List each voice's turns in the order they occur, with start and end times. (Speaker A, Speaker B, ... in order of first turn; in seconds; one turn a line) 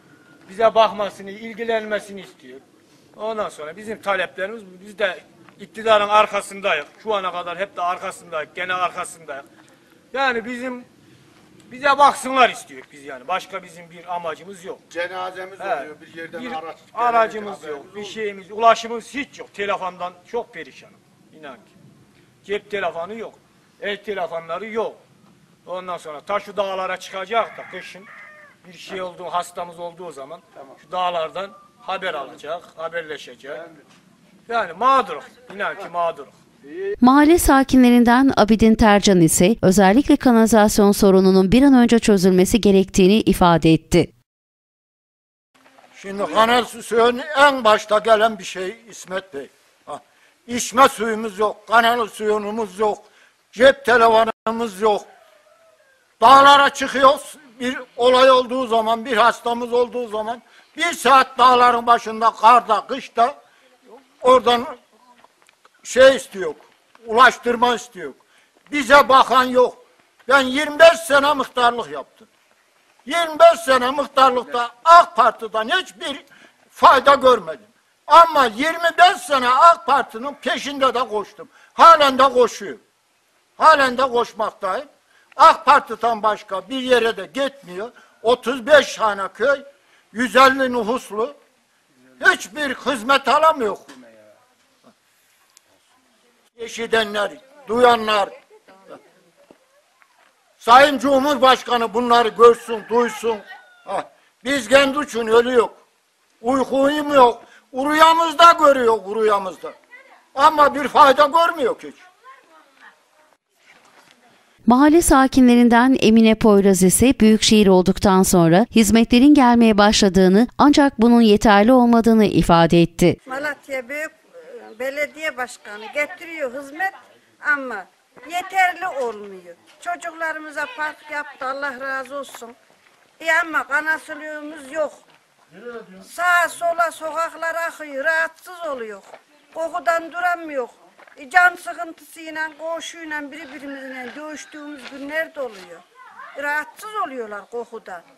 Speaker A: 0.5-2.6
Speaker A: 3.1-9.5
Speaker A: 10.1-10.9
Speaker A: 11.7-14.8
Speaker B: 14.9-17.8
Speaker A: 15.6-21.7
Speaker A: 22.4-25.0
Speaker A: 25.6-28.1
Speaker A: 28.6-33.6
Speaker A: 34.5-36.4
Speaker C: 37.0-44.1
Speaker D: 45.9-55.1
Speaker D: 56.2-63.4
Speaker D: 64.2-64.8
Speaker D: 65.8-72.3
Speaker D: 73.0-82.8
Speaker D: 83.6-91.3
Speaker D: 92.2-93.9
Speaker D: 96.6-98.3
Speaker D: 100.6-105.8
Speaker D: 106.4-109.7
Speaker D: 110.3-112.0
Speaker C: 114.7-123.2
Speaker E: 123.2-132.6
Speaker E: 133.2-135.0
Speaker E: 135.9-145.8
Speaker E: 146.3-148.0